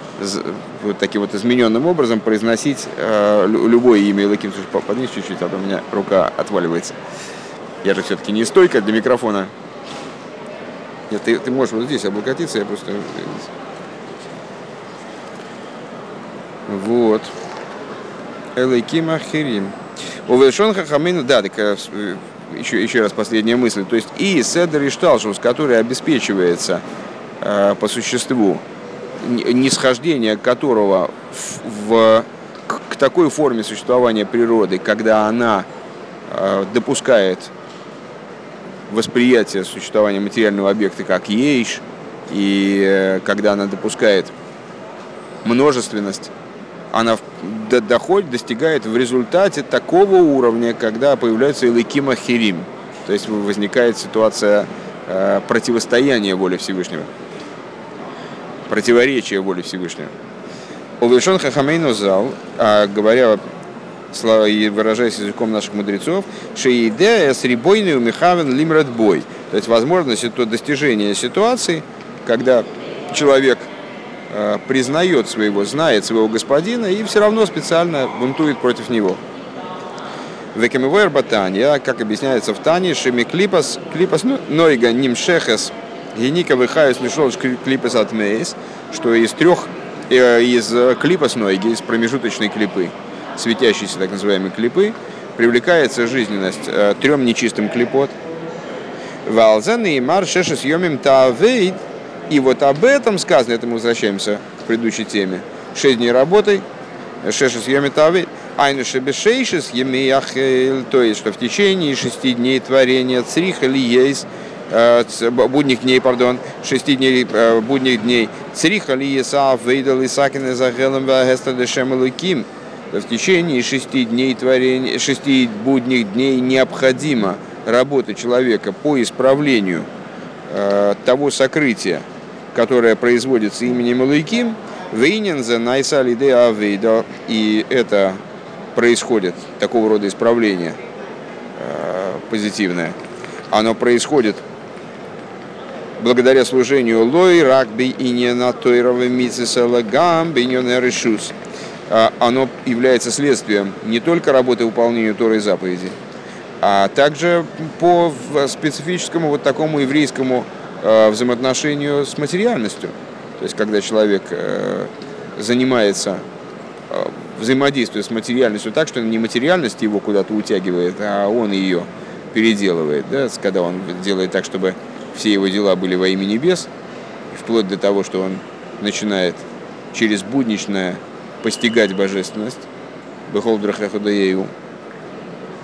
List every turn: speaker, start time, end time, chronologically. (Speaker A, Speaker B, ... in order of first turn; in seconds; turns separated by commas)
Speaker A: 0.2-7.0, Speaker A: 7.8-9.5, Speaker A: 11.1-13.5, Speaker A: 16.7-17.3, Speaker A: 18.6-19.8, Speaker A: 20.3-26.8, Speaker A: 27.4-28.6, Speaker A: 29.2-35.7, Speaker A: 36.3-37.5, Speaker A: 38.9-44.3, Speaker A: 45.4-46.3, Speaker A: 46.9-57.1, Speaker A: 58.7-60.1, Speaker A: 61.0-63.4, Speaker A: 64.1-73.7, Speaker A: 74.3-79.2, Speaker A: 80.5-98.2, Speaker A: 99.2-106.6, Speaker A: 107.2-129.9, Speaker A: 130.5-138.2, Speaker A: 138.8-140.8, Speaker A: 141.6-143.0, Speaker A: 143.5-144.4, Speaker A: 146.0-151.3, Speaker A: 151.9-156.0, Speaker A: 156.6-166.2, Speaker A: 166.9-176.7, Speaker A: 177.3-182.7, Speaker A: 183.3-184.5